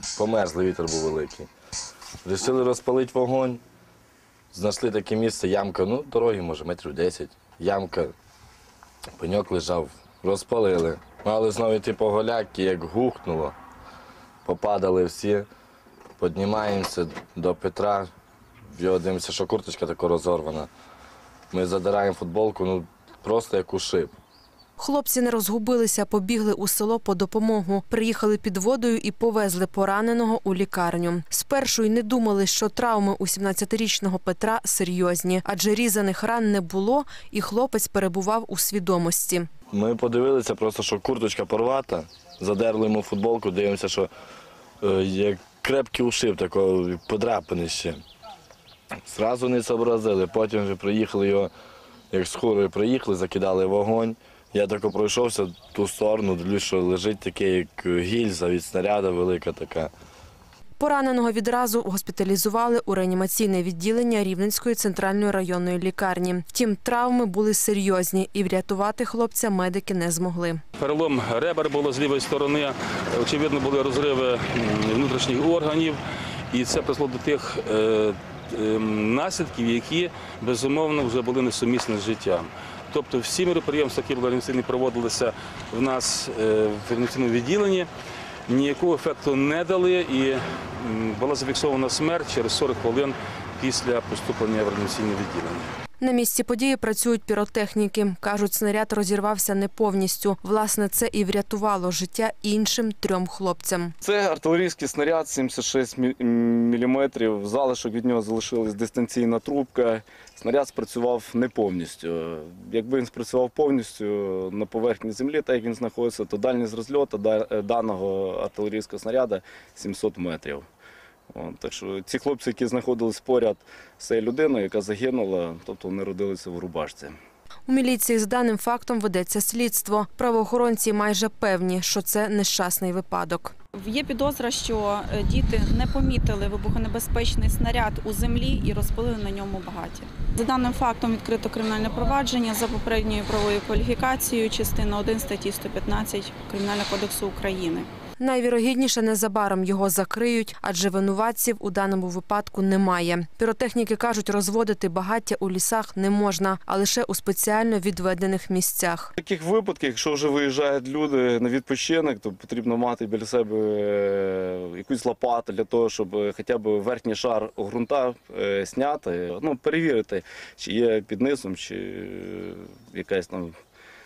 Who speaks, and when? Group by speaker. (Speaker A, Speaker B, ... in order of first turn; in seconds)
Speaker A: 0.1-1.5, 2.2-3.6, 4.5-8.2, 9.2-13.6, 14.4-15.5, 16.2-18.1, 18.7-20.7, 21.5-24.2, 39.7-44.1, 44.8-48.0, 49.0-51.5, 52.1-59.9
Speaker B: 24.8-39.5, 60.8-70.6, 96.0-103.9, 127.7-133.5, 148.2-159.1
Speaker C: 70.8-76.0, 76.5-87.9, 88.5-95.7
Speaker D: 104.0-120.7, 121.3-127.2, 159.2-173.6
Speaker E: 133.8-147.9